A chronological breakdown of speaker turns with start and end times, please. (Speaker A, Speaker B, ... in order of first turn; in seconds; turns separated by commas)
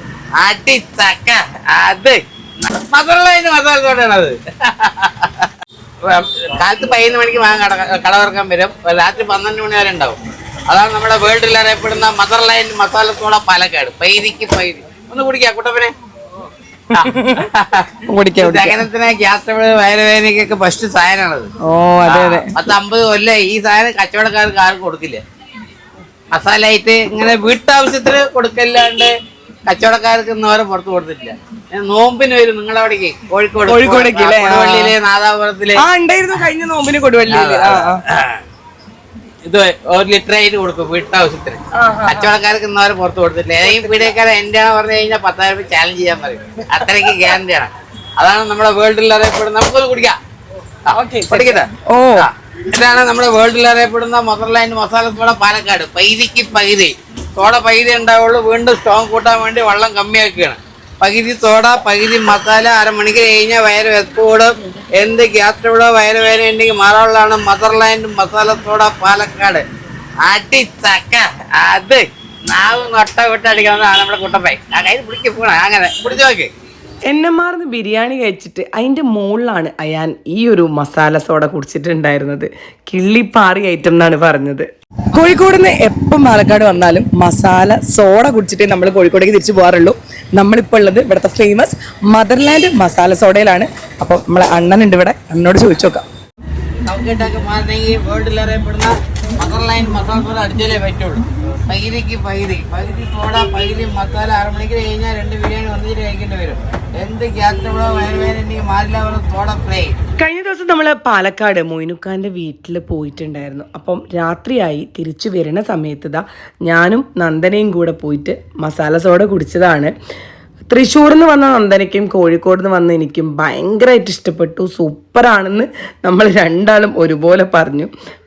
Speaker A: 0.4-5.5, Speaker A: 6.0-10.2, Speaker A: 10.7-15.9, Speaker B: 16.9-17.5, Speaker A: 16.9-17.9, Speaker B: 18.1-18.9, Speaker A: 18.4-21.5, Speaker B: 21.6-22.5, Speaker A: 22.1-25.2, Speaker A: 26.3-29.1, Speaker A: 29.7-35.8, Speaker B: 33.7-35.0, Speaker B: 35.8-38.0, Speaker A: 37.3-38.4, Speaker A: 39.5-50.1, Speaker B: 41.8-42.3, Speaker B: 43.6-44.1, Speaker B: 46.8-47.3, Speaker A: 50.9-69.6, Speaker B: 50.9-52.3, Speaker A: 70.2-76.5, Speaker B: 77.1-96.0, Speaker A: 96.9-110.0, Speaker B: 110.2-119.9, Speaker B: 120.7-127.9